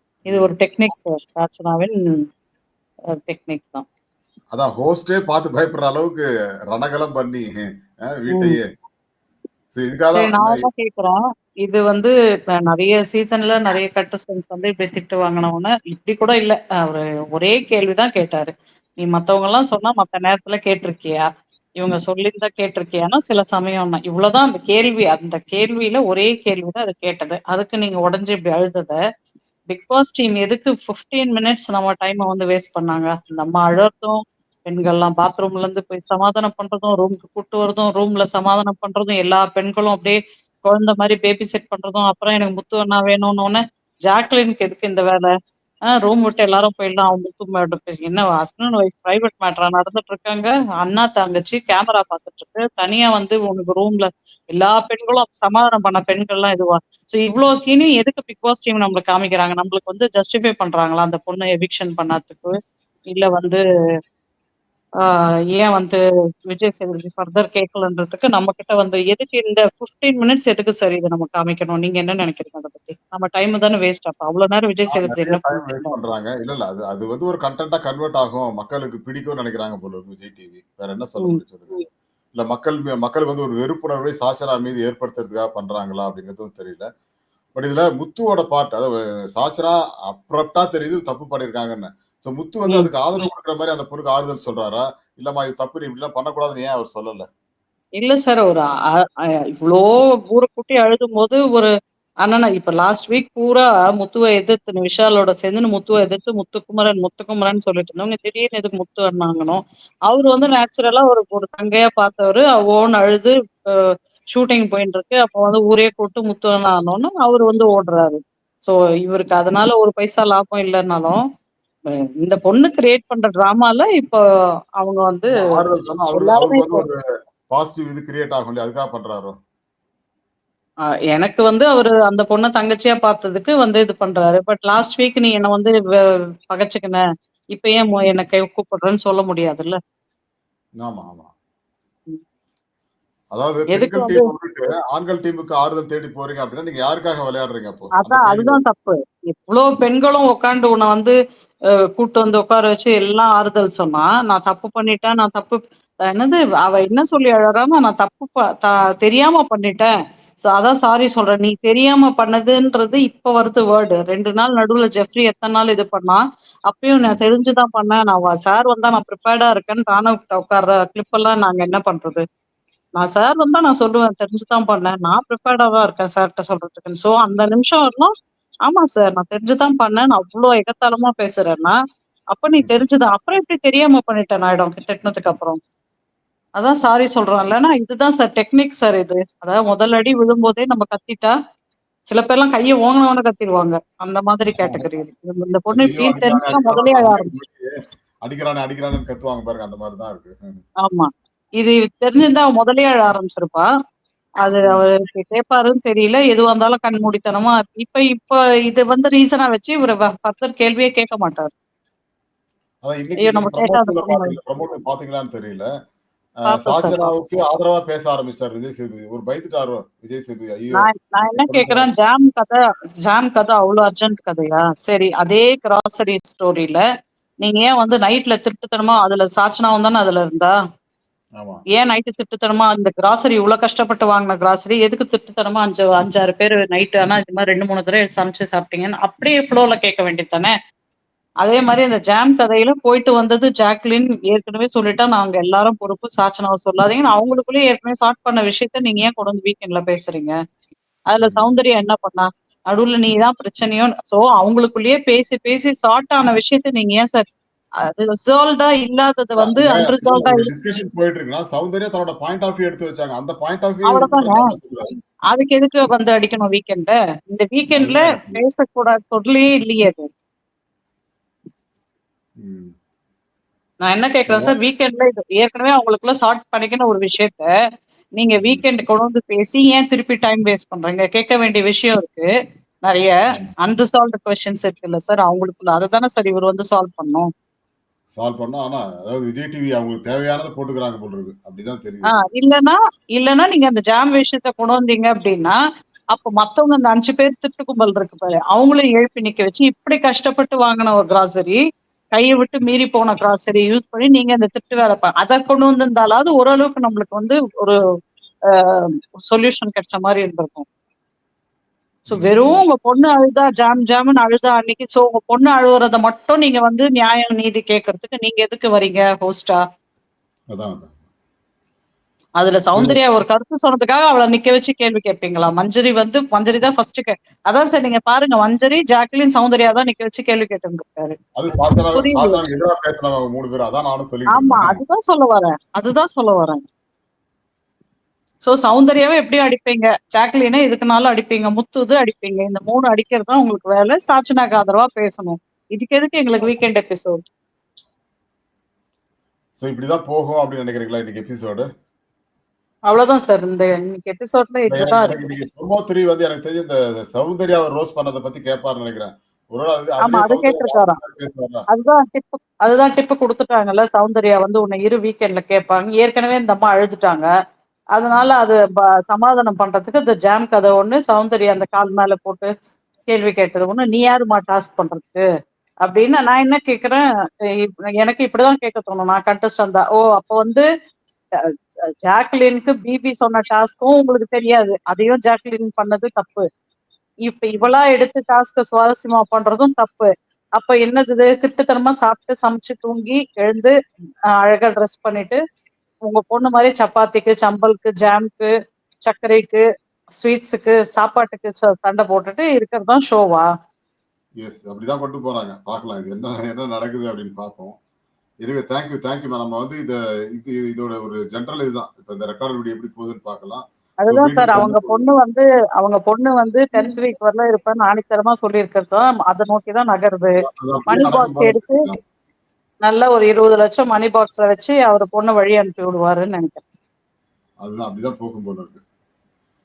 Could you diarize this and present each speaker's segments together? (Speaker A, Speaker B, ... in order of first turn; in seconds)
Speaker A: 0.3-2.2, 3.1-3.9, 8.3-8.6, 10.2-21.2, 21.8-29.0, 29.7-45.3, 45.9-62.5, 63.1-63.6, 65.0-66.0, 66.5-76.0, 81.2-81.8, 92.7-93.2, 98.0-98.7, 99.5-101.7, 102.2-121.2, 121.9-124.2, 124.8-125.4, 126.1-126.8, 131.1-135.8, 136.5-139.8, 143.7-144.3, 148.0-151.1, 151.9-159.9, 160.4-172.2, 173.0-178.1, 178.7-181.8, 182.3-185.6, 186.6-191.3, 192.1-197.3, 200.8-203.7, 204.4-211.5, 213.2-214.3, 216.5-217.2, 220.7-226.8, 227.4-230.5, 231.7-240.5, 241.4-250.3, 251.1-257.2, 257.9-260.5, 263.9-264.4, 265.3-270.1, 273.8-277.5, 278.2-282.3, 282.8-287.3, 292.1-295.6, 296.1-301.6, 302.1-307.8, 308.5-310.7, 312.1-319.6, 322.4-331.2, 331.9-332.4, 334.3-336.6, 338.4-347.2, 352.9-355.2, 360.0-361.0, 361.7-367.3, 367.9-372.5, 373.1-375.2, 375.9-380.6, 382.1-386.4, 387.3-393.7, 394.3-395.4, 396.1-398.5, 399.1-399.6, 400.2-403.5, 414.0-420.3, 420.9-421.8, 422.8-426.6
Speaker B: 4.5-8.7, 9.7-10.7, 74.9-81.8, 82.4-86.9, 87.5-97.3, 125.3-129.3, 140.8-141.3, 143.3-148.6, 182.6-182.8, 194.6-194.8, 195.7-197.7, 198.2-200.6, 212.8-215.7, 216.4-221.9, 251.2-251.5, 259.4-264.9, 267.8-268.4, 272.4-272.7, 274.3-274.6, 278.4-278.6, 288.1-292.1, 312.1-312.6, 320.5-321.1, 322.7-323.0, 331.4-334.8, 349.6-351.6, 354.7-361.7, 404.4-407.8, 408.4-415.1, 420.4-422.0, 427.6-428.8